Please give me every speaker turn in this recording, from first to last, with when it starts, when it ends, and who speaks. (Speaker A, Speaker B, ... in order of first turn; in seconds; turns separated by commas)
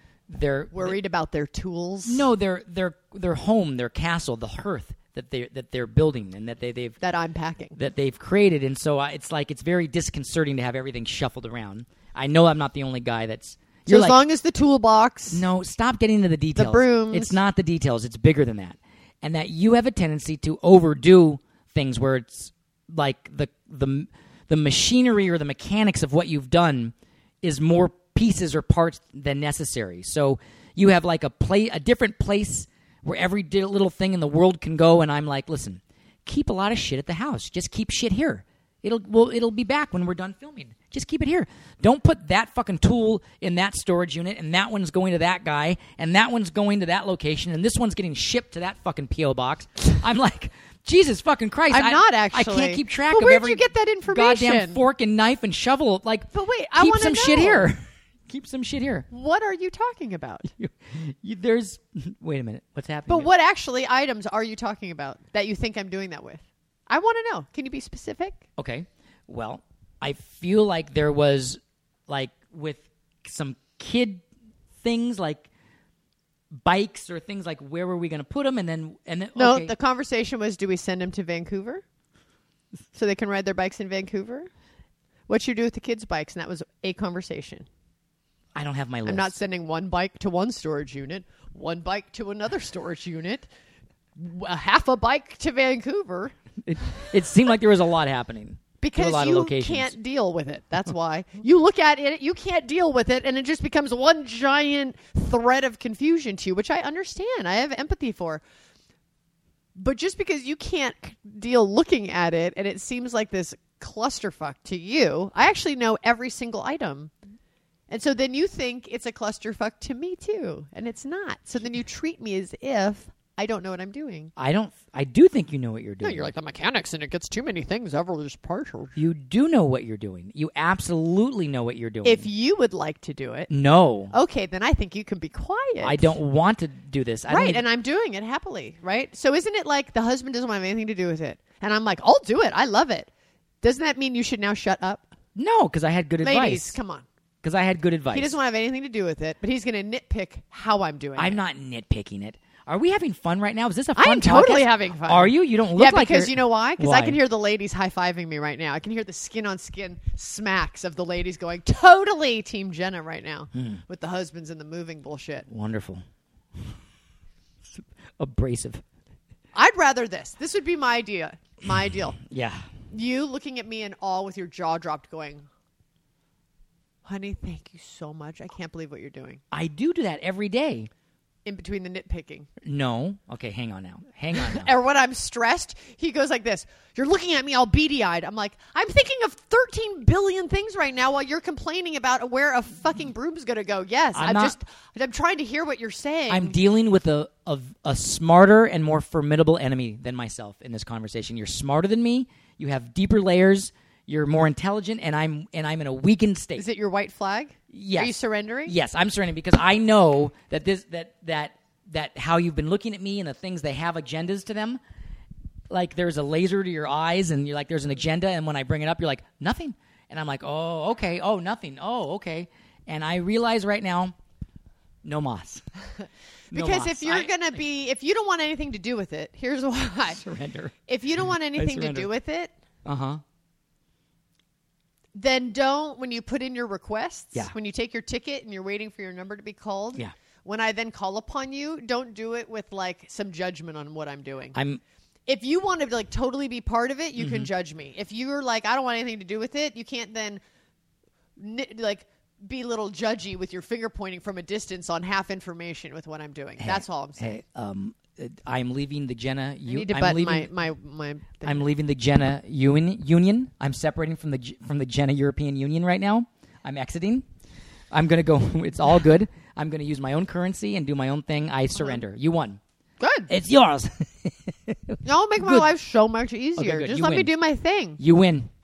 Speaker A: 0.3-1.0, Speaker B: 0.7-2.3, Speaker A: 2.1-7.0, Speaker B: 7.0-7.8, Speaker A: 7.8-14.2, Speaker B: 13.9-15.4, Speaker A: 15.3-59.1, Speaker B: 16.6-17.4, Speaker B: 51.7-54.8, Speaker B: 56.3-57.7, Speaker B: 59.1-60.5, Speaker A: 60.5-63.3, Speaker B: 63.1-68.4, Speaker A: 68.6-74.2, Speaker A: 74.8-75.5, Speaker A: 76.5-79.7, Speaker B: 79.3-81.8, Speaker B: 83.0-84.5, Speaker B: 85.3-87.7, Speaker A: 88.5-89.4, Speaker B: 89.1-93.5, Speaker B: 94.2-96.3, Speaker A: 96.7-99.9, Speaker B: 98.8-108.4, Speaker B: 109.8-117.1, Speaker B: 117.9-124.3, Speaker A: 124.4-126.3, Speaker B: 126.0-128.9, Speaker A: 129.0-132.3, Speaker B: 132.0-133.5, Speaker A: 133.5-134.1, Speaker B: 134.1-136.2, Speaker A: 135.8-137.6, Speaker B: 137.3-143.1, Speaker B: 143.6-145.1, Speaker A: 145.3-146.8, Speaker B: 146.2-147.1, Speaker A: 147.4-148.3, Speaker B: 148.1-151.4, Speaker A: 151.2-157.2, Speaker B: 154.0-165.5, Speaker A: 163.5-163.8, Speaker A: 165.5-166.0, Speaker A: 167.6-168.8, Speaker B: 169.5-172.2, Speaker A: 172.2-172.7, Speaker B: 172.9-175.5, Speaker B: 177.1-179.4, Speaker A: 179.5-180.9, Speaker B: 181.4-182.5, Speaker A: 182.6-184.7, Speaker B: 184.4-196.6, Speaker A: 194.2-194.6, Speaker A: 196.3-206.7, Speaker B: 206.6-208.8, Speaker A: 207.7-214.8, Speaker A: 215.7-224.1, Speaker A: 225.0-225.6, Speaker A: 226.5-227.3, Speaker B: 226.5-230.2, Speaker A: 230.2-230.7, Speaker B: 230.9-232.5, Speaker A: 231.5-232.1, Speaker A: 232.8-233.2, Speaker B: 235.2-244.6, Speaker A: 244.6-244.8, Speaker B: 245.3-250.4, Speaker A: 247.2-247.5, Speaker B: 251.4-257.4, Speaker A: 256.6-260.5, Speaker B: 259.7-261.7, Speaker A: 261.4-267.2, Speaker A: 267.9-272.6, Speaker B: 271.8-272.0, Speaker B: 273.0-273.3, Speaker A: 273.3-275.7, Speaker B: 275.1-278.0, Speaker A: 276.6-277.3, Speaker A: 278.0-278.5